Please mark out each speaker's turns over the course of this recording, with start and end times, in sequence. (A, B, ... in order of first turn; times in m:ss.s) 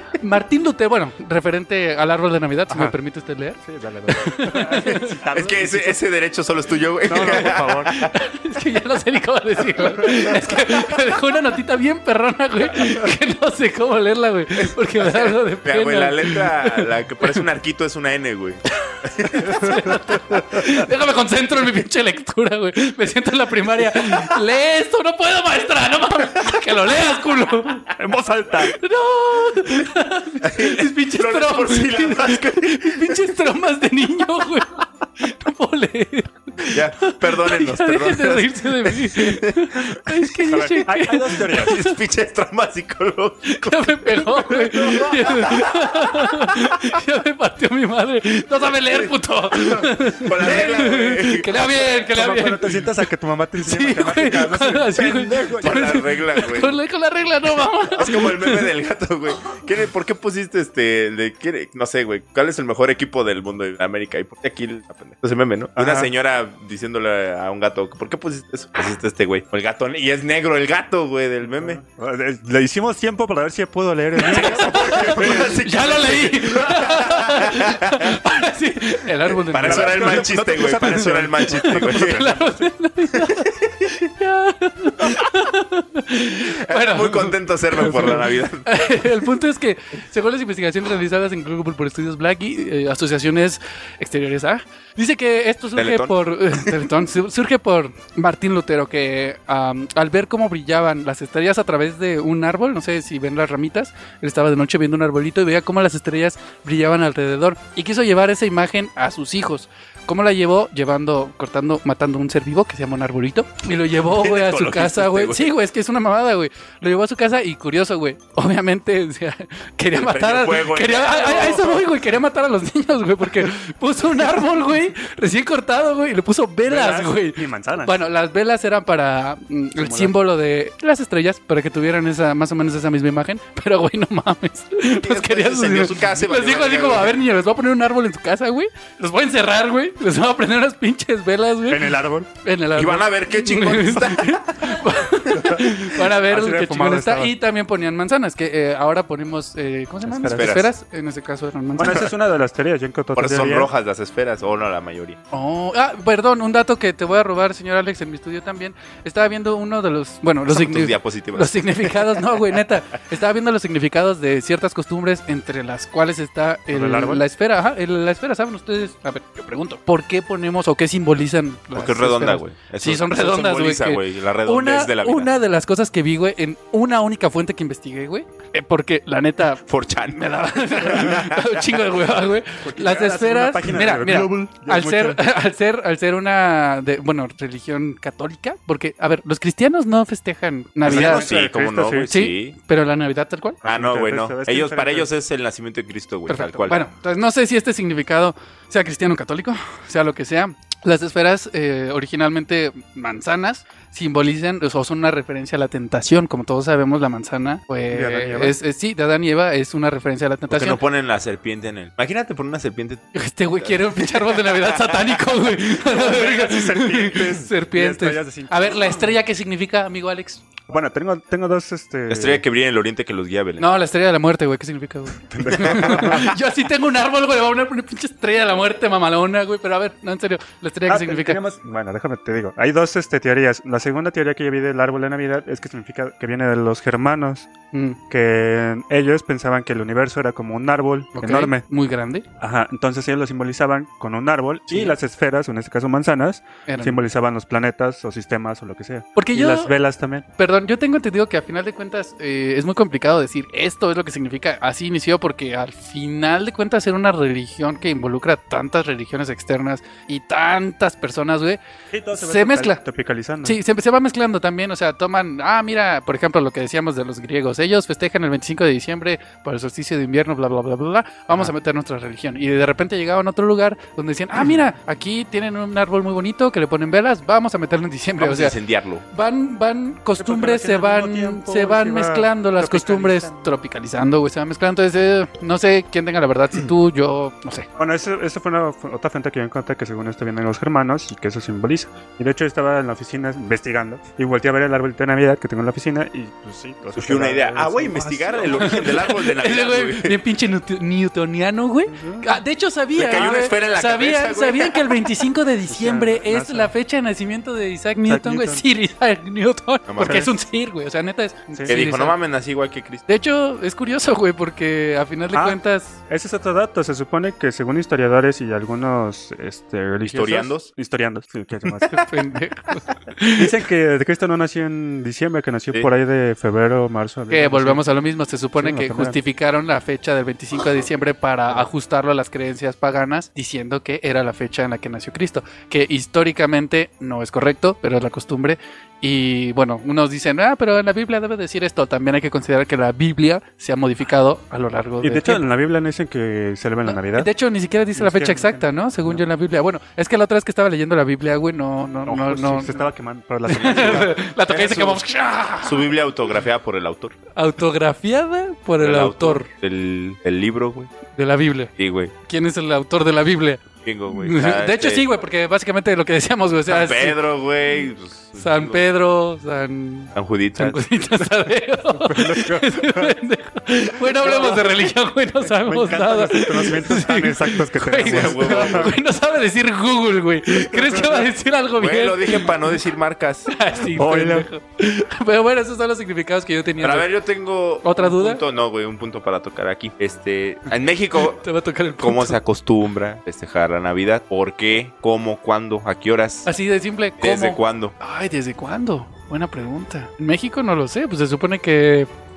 0:00.1-0:05.2 A
0:03.6-0:06.0 B
0:04.5-0:08.1 C
0:07.1-0:08.0 B
0:07.9-0:17.4 A
0:09.9-0:10.2 C
0:14.6-0:19.7 C
0:18.8-0:27.9 A
0:19.5-0:20.7 B
0:28.0-0:28.8 B
0:28.6-0:42.0 A
0:30.4-0:33.3 C
0:36.7-0:40.4 C
0:40.5-0:41.8 B
0:41.5-0:46.3 C
0:43.5-0:53.1 A
0:44.5-0:45.2 B
0:50.2-0:51.9 C
0:52.1-0:54.9 B
0:53.6-0:58.7 A
0:54.5-0:56.8 C
0:57.9-1:11.8 C
1:05.8-1:06.1 B
1:11.4-1:15.6 B
1:14.2-1:20.3 A
1:14.2-1:18.2 C
1:19.5-1:22.3 C
1:19.6-1:22.5 B
1:21.6-2:32.1 A
1:23.2-1:23.9 C
1:26.5-1:29.1 C
1:35.8-1:36.7 C
1:54.0-1:55.5 C
1:59.9-2:01.9 C
2:06.6-2:08.0 B
2:09.8-2:10.2 B
2:14.9-2:17.2 C
2:21.7-2:22.3 B
2:22.8-2:25.1 C
2:25.3-2:27.3 B
2:30.0-2:30.6 B
2:30.3-2:30.7 C
2:31.8-2:33.7 B
2:33.2-2:35.2 C
2:35.3-3:11.3 A
2:40.5-2:42.4 C
2:46.7-2:47.2 B
2:51.7-2:55.3 C
2:59.7-3:01.8 C
3:02.6-3:05.2 B
3:10.8-3:12.1 B
3:10.8-3:12.6 C
3:12.1-3:13.6 A
3:13.6-3:15.1 B
3:13.6-3:16.8 C
3:16.3-3:30.8 A
3:27.9-3:28.6 B
3:30.5-3:33.1 C
3:33.1-3:40.4 A
3:33.6-3:35.1 C
3:35.8-3:39.1 B
3:40.7-3:42.4 B
3:42.1-3:43.7 C
3:43.6-3:51.4 A
3:45.3-3:46.3 B
3:45.6-3:46.2 C
3:50.9-3:57.5 B
3:57.7-3:58.0 A
3:58.1-4:01.6 B
4:01.2-4:02.2 A
4:02.4-4:10.3 B
4:04.7-4:04.9 A
4:06.7-4:07.0 A
4:09.2-4:09.7 A
4:10.4-4:21.6 A
4:21.9-4:23.6 B
4:22.1-4:22.8 A
4:23.4-4:38.6 A
4:38.2-4:39.0 C
4:39.1-4:47.7 A
4:40.2-4:43.5 B
4:47.8-4:58.9 B
4:57.0-5:00.2 C
4:58.6-5:12.2 A
5:01.9-5:02.3 B
5:03.0-5:05.0 C
5:05.7-5:06.7 B
5:08.0-5:08.6 B
5:09.9-5:10.3 C
5:10.0-5:10.3 B
5:11.7-5:13.0 C
5:13.1-5:16.0 A
5:15.3-5:21.9 B
5:20.0-5:20.7 C
5:21.9-5:23.5 A
5:23.4-5:27.9 B
5:27.3-5:45.4 A
5:28.6-5:29.2 B
5:45.0-5:47.3 B
5:46.8-5:52.9 A
5:48.0-5:49.2 B
5:52.0-5:54.1 B
5:53.5-5:55.9 A
5:53.6-5:55.0 C
5:55.6-5:57.2 C
5:57.4-5:59.5 A
5:58.8-6:00.9 C
6:01.2-6:01.7 A
6:01.8-6:02.1 C
6:02.2-6:07.2 A
6:03.8-6:05.1 C
6:06.7-6:08.8 C
6:08.4-6:22.7 A
6:10.2-6:10.8 C
6:12.0-6:13.2 B
6:14.3-6:14.6 B
6:14.3-6:14.6 C
6:15.6-6:19.0 B
6:18.0-6:19.0 C
6:20.8-6:21.0 B
6:21.8-6:23.5 C
6:23.5-6:27.1 A
6:23.9-6:24.5 B
6:26.8-6:31.4 C
6:27.8-6:28.4 A
6:31.2-6:32.4 A
6:32.0-6:36.5 C
6:36.5-6:42.1 A
6:37.2-6:38.0 C